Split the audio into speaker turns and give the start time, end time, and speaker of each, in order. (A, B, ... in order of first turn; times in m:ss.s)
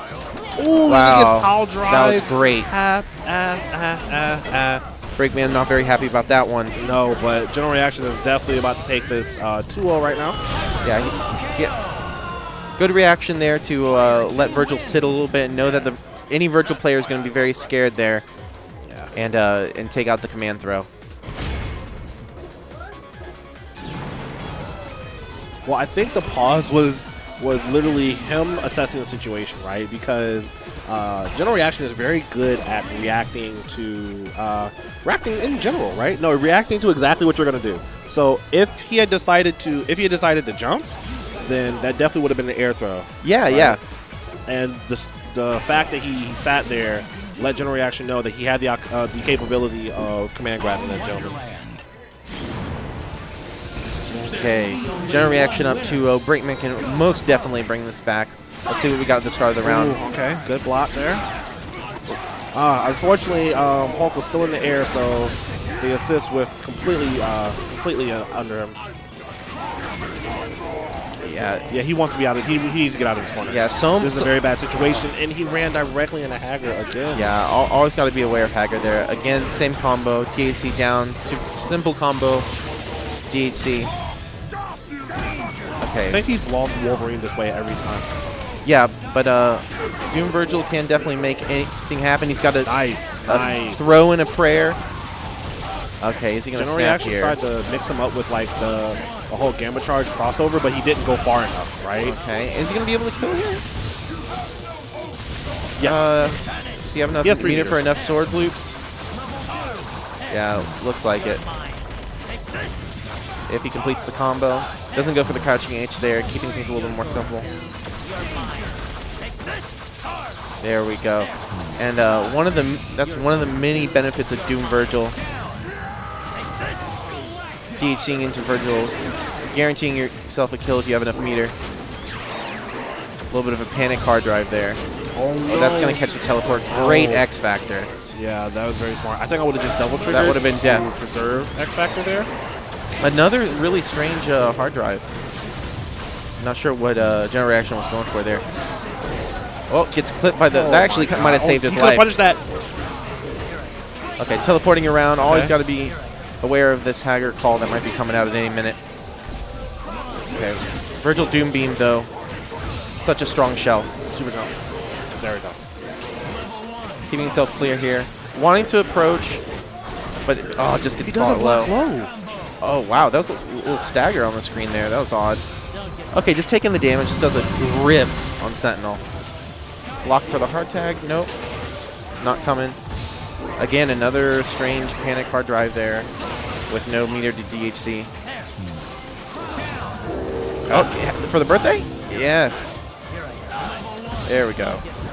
0:00.6-0:04.8 A
0:00.9-0:02.7 B
0:05.2-0:06.8 B
0:06.8-0:10.4 A
0:10.8-0:11.7 B
0:12.8-0:18.2 B
0:18.9-0:19.1 A
0:19.1-0:20.9 B
0:25.6-0:40.9 A
0:41.4-0:43.8 A
0:43.2-0:43.8 B
0:44.5-0:51.4 A
0:54.1-1:00.0 B
0:59.6-1:01.2 A
1:02.5-1:08.8 A
1:11.2-1:11.7 B
1:11.7-1:17.3 A
1:13.5-1:14.3 B
1:17.1-1:22.5 B
1:23.3-1:23.9 B
1:25.8-1:26.2 B
1:26.1-1:28.1 A
1:28.6-1:32.7 B
1:32.6-1:33.8 A
1:33.2-1:34.8 B
1:36.0-1:37.4 B
1:36.5-1:42.2 A
1:42.0-1:43.6 B
1:45.8-1:48.8 B
1:47.2-1:47.8 A
1:50.3-1:51.4 B
1:53.5-1:57.5 B
2:00.6-2:05.2 B
2:07.8-2:11.5 B
2:13.3-2:14.8 B
2:15.1-2:17.2 A
2:15.5-2:17.9 B
2:18.1-2:22.3 A
2:20.1-2:20.8 B
2:23.0-2:25.0 B
2:26.4-2:28.4 B
2:29.7-2:32.1 B
2:30.5-2:32.4 A
2:34.2-2:38.8 B
2:35.2-2:35.5 A
2:40.3-2:42.1 B
2:43.0-2:43.9 B
2:44.1-2:44.5 A
2:45.2-2:45.6 A
2:47.1-2:49.4 B
2:50.2-2:51.7 B
2:51.0-2:52.1 A
2:52.6-2:55.4 B
2:56.1-2:59.0 B
3:00.0-3:01.3 B
3:02.2-3:02.8 B
3:03.6-3:06.1 B
3:06.7-3:08.1 B
3:10.7-3:12.8 B
3:14.2-3:14.8 B